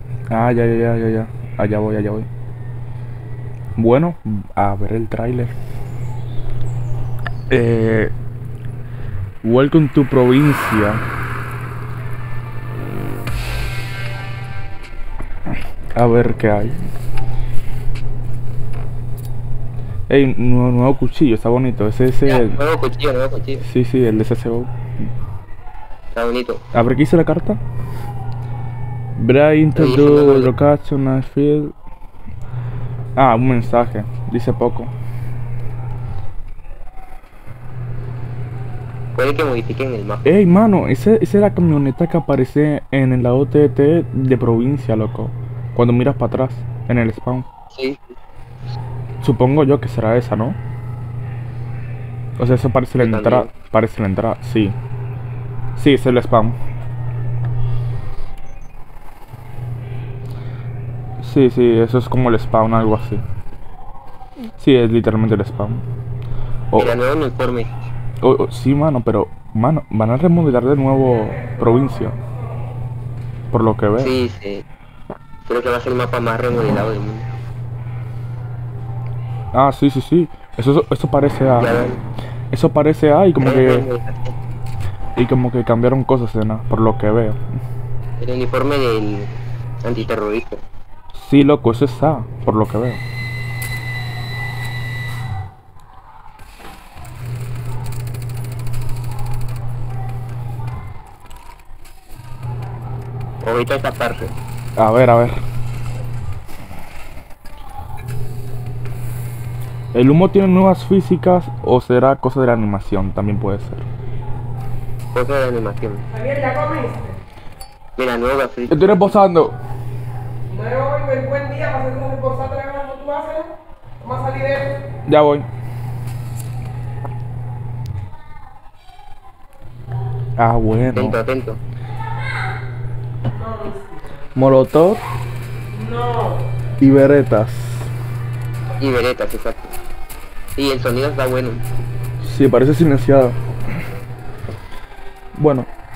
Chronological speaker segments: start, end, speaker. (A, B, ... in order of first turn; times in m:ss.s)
0:00.3-0:02.3 A
0:03.8-0:05.5 A
0:07.5-0:08.1 A
0:09.4-0:11.0 A
0:16.0-0:16.8 A
0:20.1-0:22.6 A
0:22.2-0:23.6 B
0:23.6-0:24.7 A
0:26.1-0:26.6 B
0:26.7-0:27.6 A
0:29.2-0:31.7 A
0:29.8-0:30.5 B
0:33.2-0:34.9 A
0:39.1-0:40.3 B
0:40.2-0:47.5 A
0:47.7-0:48.1 B
0:49.2-0:50.6 A
0:52.4-0:54.8 A
0:53.0-0:53.5 B
0:55.8-0:56.6 A
1:01.2-1:03.2 A
1:04.6-1:05.8 A
1:06.8-1:07.8 B
1:08.2-1:12.2 A
1:13.5-1:14.2 A
1:14.0-1:14.6 B
1:15.4-1:17.3 B
1:19.5-1:21.7 A
1:21.6-1:22.0 B
1:22.5-1:23.9 A
1:23.4-1:24.3 B
1:25.2-1:27.4 A
1:28.2-1:30.6 B
1:31.1-1:33.0 A
1:43.4-1:44.3 B
1:44.8-1:45.4 A
1:49.9-1:53.8 A
1:55.1-1:56.0 B
1:56.3-1:57.1 C
1:58.0-1:59.2 B
1:58.7-1:59.6 A
2:00.5-2:03.5 C
2:04.0-2:04.7 C
2:05.1-2:05.5 A
2:10.4-2:11.2 A
2:10.9-2:11.6 B
2:14.3-2:15.0 A
2:16.8-2:17.9 A
2:18.8-2:19.7 B
2:20.6-2:21.6 B
2:22.2-2:23.4 A
2:25.4-2:25.7 A